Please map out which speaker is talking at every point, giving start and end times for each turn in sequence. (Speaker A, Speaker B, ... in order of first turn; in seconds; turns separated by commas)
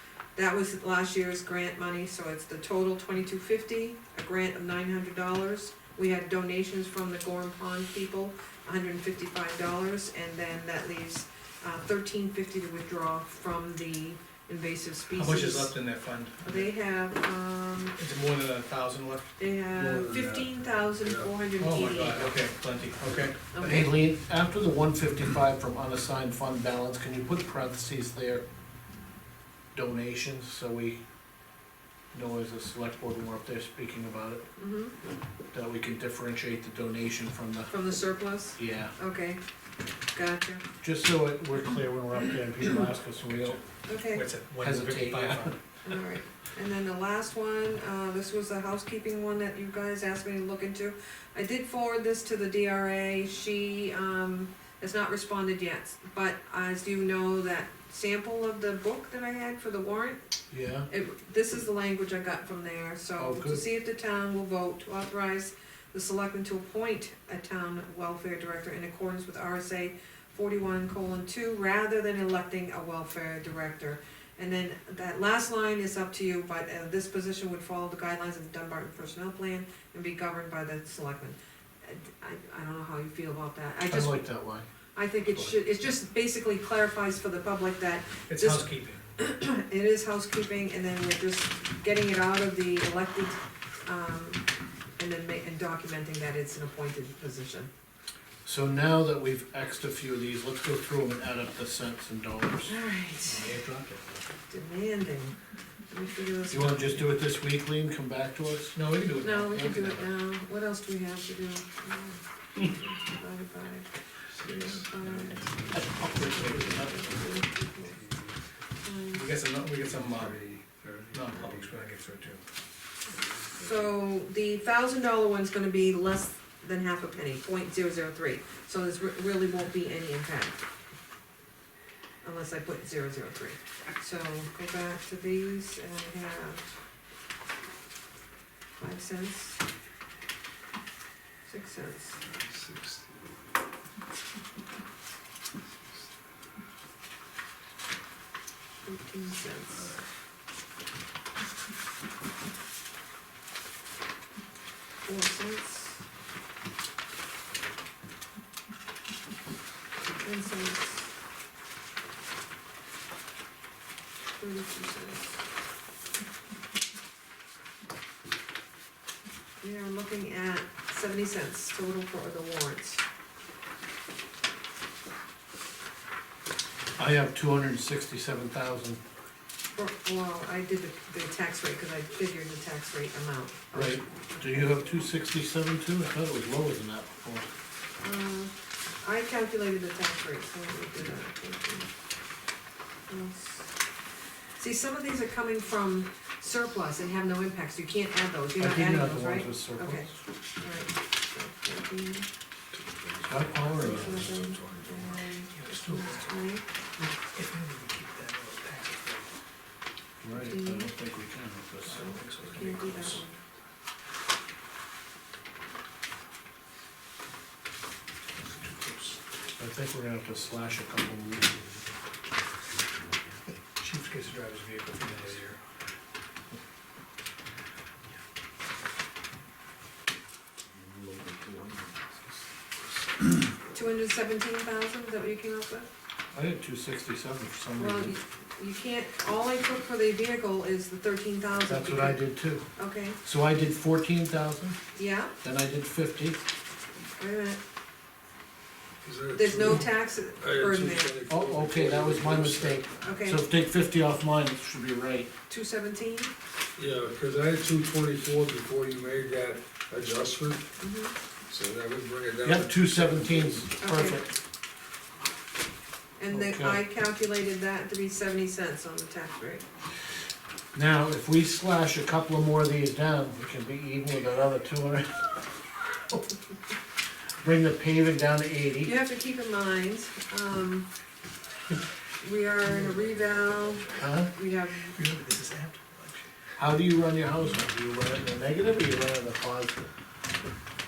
Speaker A: 0.4-15.7, Speaker B: 15.1-16.7, Speaker A: 16.4-18.0, Speaker B: 18.0-19.4, Speaker A: 19.4-22.4, Speaker C: 19.8-21.3, Speaker B: 21.6-23.4, Speaker A: 23.5-23.9, Speaker D: 23.6-28.4, Speaker D: 29.7-31.0, Speaker D: 32.1-34.5, Speaker A: 34.6-35.0, Speaker D: 35.5-37.7, Speaker A: 37.7-39.4, Speaker D: 38.6-38.9, Speaker A: 40.1-40.6, Speaker D: 40.8-43.6, Speaker A: 43.9-44.3, Speaker B: 44.1-45.6, Speaker D: 44.6-45.5, Speaker A: 45.8-60.2, Speaker D: 60.5-60.9, Speaker A: 60.9-84.2, Speaker D: 63.2-63.6, Speaker D: 83.9-84.7, Speaker A: 85.0-94.4, Speaker B: 88.3-89.0, Speaker A: 95.0-97.7, Speaker D: 98.5-102.8, Speaker A: 102.7-103.5, Speaker B: 103.3-104.2, Speaker A: 104.5-105.4, Speaker A: 105.9-107.1, Speaker D: 106.5-108.8, Speaker B: 108.7-110.1, Speaker A: 109.2-113.9, Speaker A: 114.4-118.0, Speaker C: 114.4-114.8, Speaker D: 115.7-117.1, Speaker C: 117.9-118.3, Speaker A: 118.8-119.2, Speaker B: 119.1-120.4, Speaker C: 119.8-121.8, Speaker B: 121.1-122.4, Speaker C: 123.1-123.8, Speaker A: 123.6-130.6, Speaker A: 132.2-136.7, Speaker A: 138.8-139.6, Speaker A: 141.5-142.2, Speaker C: 142.2-143.5, Speaker A: 148.8-150.0, Speaker A: 155.1-156.0, Speaker A: 160.2-161.1, Speaker A: 164.4-165.4, Speaker A: 169.6-173.0, Speaker D: 177.0-179.0, Speaker A: 179.7-184.7, Speaker D: 183.7-187.5, Speaker A: 188.0-191.9, Speaker A: 193.1-193.7, Speaker A: 194.6-202.3, Speaker D: 198.6-200.1, Speaker C: 202.7-205.2, Speaker D: 203.2-204.4, Speaker A: 203.7-206.6, Speaker B: 205.5-206.3, Speaker B: 207.2-209.3, Speaker D: 210.2-212.2, Speaker A: 210.3-210.9, Speaker B: 211.8-213.2, Speaker A: 211.9-213.4, Speaker B: 218.4-219.2, Speaker D: 219.6-221.8, Speaker B: 223.8-225.6, Speaker C: 230.7-232.4, Speaker A: 233.7-235.9, Speaker D: 236.3-238.2, Speaker A: 237.8-242.2, Speaker D: 241.6-242.7, Speaker A: 242.8-243.2, Speaker D: 243.2-244.8, Speaker A: 244.9-245.3, Speaker D: 245.4-246.4, Speaker A: 247.2-247.6, Speaker C: 249.0-252.8, Speaker A: 249.3-251.2, Speaker D: 251.3-255.3, Speaker A: 253.0-253.4, Speaker A: 255.5-256.3, Speaker C: 256.8-260.7, Speaker A: 260.8-261.1, Speaker C: 261.5-263.7, Speaker D: 262.4-264.4, Speaker A: 263.8-264.2, Speaker A: 266.2-269.6, Speaker D: 266.3-266.8, Speaker D: 270.7-275.3, Speaker D: 277.4-278.9, Speaker A: 278.8-280.9, Speaker A: 282.2-285.0, Speaker D: 284.0-284.3, Speaker B: 284.9-286.3, Speaker D: 286.6-289.9